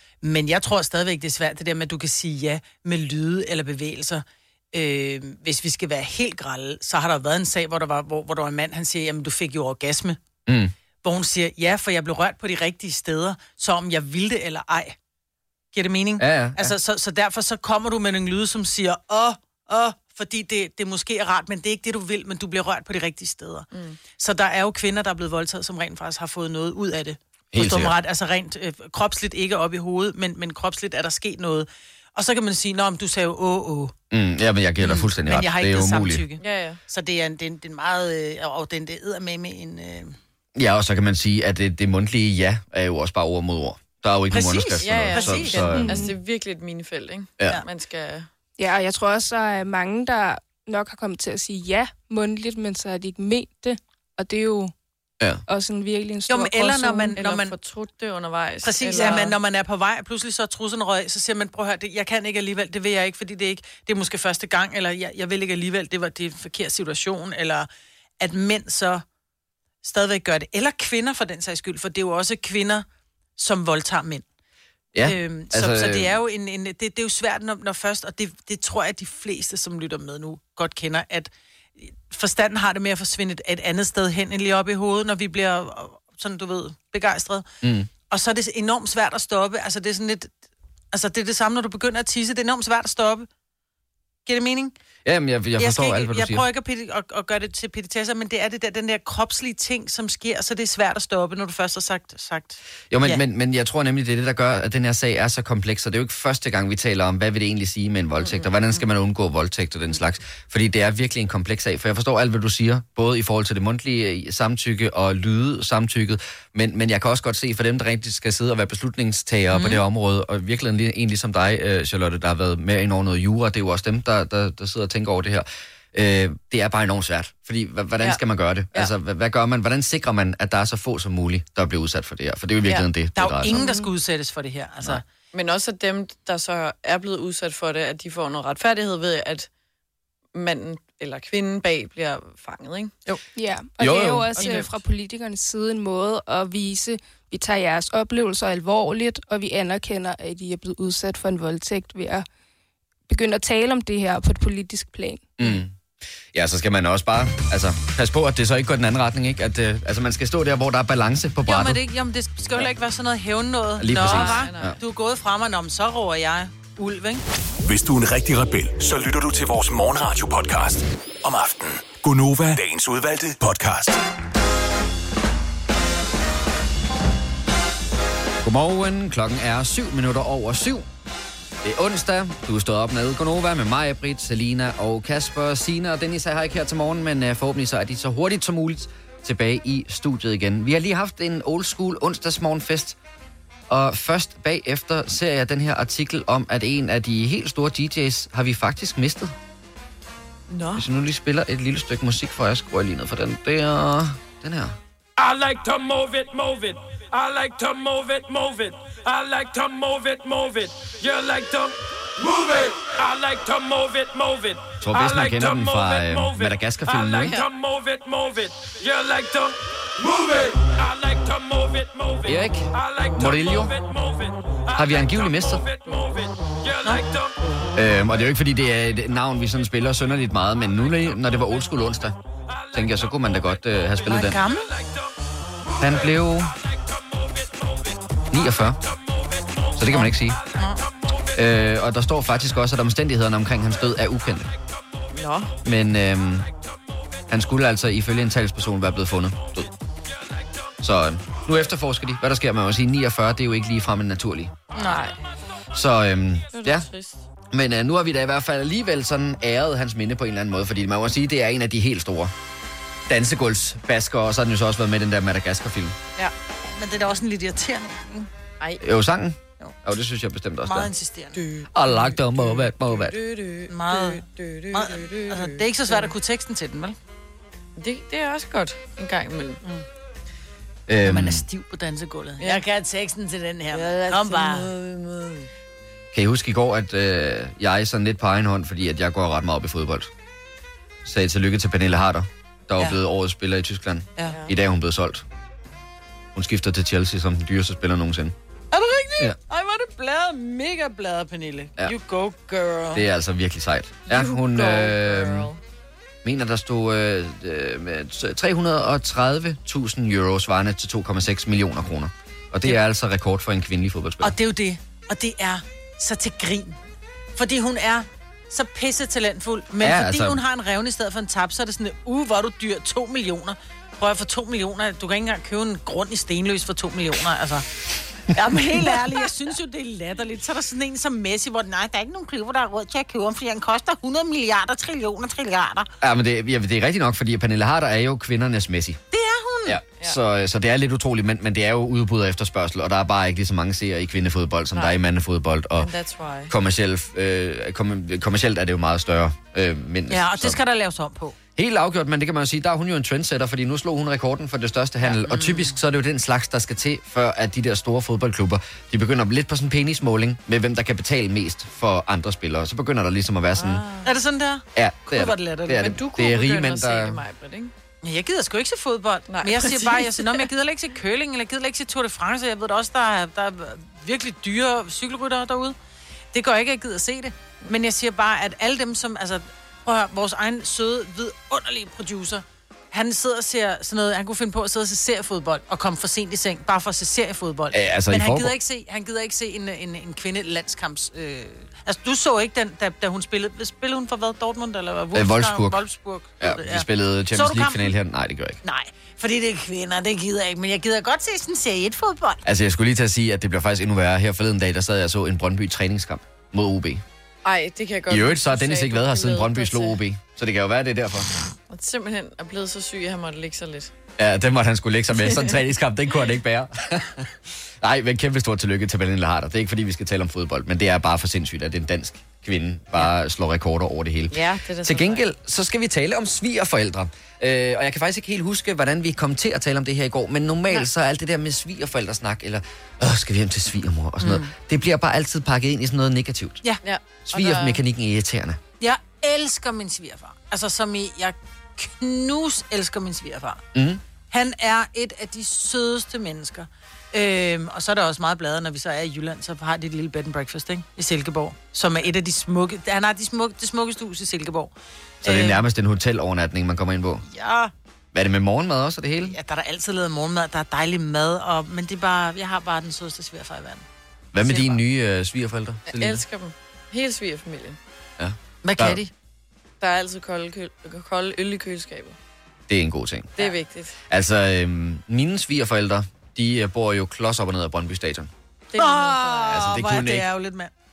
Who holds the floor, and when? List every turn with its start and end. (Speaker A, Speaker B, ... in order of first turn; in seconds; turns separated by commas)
Speaker A: 0.2-10.2, Speaker B: 10.5-10.7, Speaker A: 11.0-14.9, Speaker A: 15.7-33.9, Speaker B: 16.2-16.7, Speaker C: 23.7-24.0, Speaker B: 27.5-27.9, Speaker B: 34.1-36.2, Speaker A: 34.8-40.2, Speaker C: 36.4-36.8, Speaker B: 40.5-46.0, Speaker A: 44.3-45.7, Speaker C: 44.8-48.3, Speaker D: 45.7-46.1, Speaker D: 48.6-54.7, Speaker D: 55.5-57.2, Speaker A: 56.3-57.5, Speaker C: 57.2-59.4, Speaker A: 58.6-67.7, Speaker A: 68.2-69.0, Speaker A: 69.8-72.8, Speaker A: 73.4-74.2, Speaker B: 74.9-76.1, Speaker A: 75.0-87.5, Speaker B: 87.6-87.9, Speaker A: 88.1-90.3, Speaker A: 90.9-93.3, Speaker A: 94.2-94.7, Speaker B: 95.0-96.4, Speaker A: 95.6-103.2, Speaker B: 102.9-133.6, Speaker C: 108.2-108.5, Speaker A: 119.5-119.8, Speaker A: 133.1-135.0, Speaker D: 133.6-133.9, Speaker C: 135.3-139.5, Speaker C: 140.3-142.9, Speaker D: 143.3-152.2, Speaker B: 143.8-144.6, Speaker C: 144.3-144.7, Speaker D: 153.1-155.3, Speaker B: 155.4-155.7, Speaker B: 156.3-161.8, Speaker A: 161.4-167.2, Speaker B: 163.8-164.8, Speaker C: 163.9-164.8, Speaker E: 167.6-174.0, Speaker B: 178.4-180.9, Speaker B: 181.6-193.0, Speaker B: 193.7-199.3, Speaker C: 200.5-200.8, Speaker B: 200.8-204.8, Speaker F: 205.2-227.3, Speaker B: 214.8-217.4, Speaker C: 217.2-217.5, Speaker B: 222.2-223.7, Speaker B: 224.7-225.6, Speaker B: 227.7-232.2, Speaker B: 232.7-234.4, Speaker A: 234.0-234.7, Speaker B: 235.8-236.5, Speaker B: 238.3-238.8, Speaker B: 239.8-240.4, Speaker A: 239.9-240.8, Speaker B: 241.3-244.5, Speaker C: 245.1-245.5, Speaker B: 245.6-246.5, Speaker B: 247.3-249.7, Speaker B: 250.8-254.5, Speaker A: 254.7-255.1, Speaker C: 254.7-255.2, Speaker B: 255.7-256.9, Speaker C: 256.5-257.2, Speaker B: 257.5-262.3, Speaker B: 263.1-266.0, Speaker A: 266.8-268.3, Speaker B: 268.8-270.9, Speaker A: 270.6-271.4, Speaker C: 271.3-276.1, Speaker B: 271.7-273.1, Speaker A: 273.7-276.9, Speaker C: 277.8-279.6, Speaker B: 280.9-281.4, Speaker A: 281.0-284.7, Speaker C: 283.7-285.5, Speaker B: 286.1-290.1, Speaker B: 291.0-295.2, Speaker C: 294.2-294.5, Speaker B: 296.3-298.3, Speaker A: 298.7-303.0, Speaker B: 302.9-305.5, Speaker C: 304.1-305.6, Speaker B: 306.2-314.3, Speaker A: 314.2-316.8, Speaker A: 317.4-327.6, Speaker B: 319.8-320.4, Speaker A: 328.3-335.9, Speaker B: 336.0-339.0, Speaker A: 339.1-339.8, Speaker B: 339.6-345.9, Speaker C: 345.8-346.5, Speaker B: 346.5-350.6, Speaker A: 350.1-351.4, Speaker B: 351.6-363.8, Speaker A: 355.0-355.8, Speaker C: 363.6-364.1, Speaker A: 364.0-365.9, Speaker B: 364.7-367.2, Speaker C: 365.7-367.7, Speaker A: 368.0-375.8, Speaker C: 369.3-370.5, Speaker A: 376.3-397.9, Speaker B: 387.7-388.5, Speaker B: 395.1-395.8, Speaker B: 396.4-398.6, Speaker A: 398.6-402.4, Speaker B: 402.4-407.0, Speaker C: 407.4-410.0, Speaker B: 408.1-411.3, Speaker C: 411.7-413.9, Speaker B: 414.2-436.6, Speaker C: 424.3-425.2, Speaker A: 434.2-434.5, Speaker C: 436.8-437.8, Speaker B: 437.3-438.6, Speaker A: 438.8-443.6, Speaker B: 443.7-444.0, Speaker A: 444.3-455.6, Speaker B: 455.2-457.2, Speaker A: 457.3-457.7, Speaker B: 458.1-459.3, Speaker A: 459.2-463.8, Speaker B: 464.3-466.2, Speaker A: 464.4-464.8, Speaker C: 465.9-467.8, Speaker B: 468.2-469.0, Speaker A: 468.6-469.1, Speaker C: 469.8-472.1, Speaker B: 472.7-473.3, Speaker C: 473.4-473.9, Speaker B: 474.1-478.3, Speaker C: 478.7-479.6, Speaker A: 478.8-480.7, Speaker B: 479.5-480.2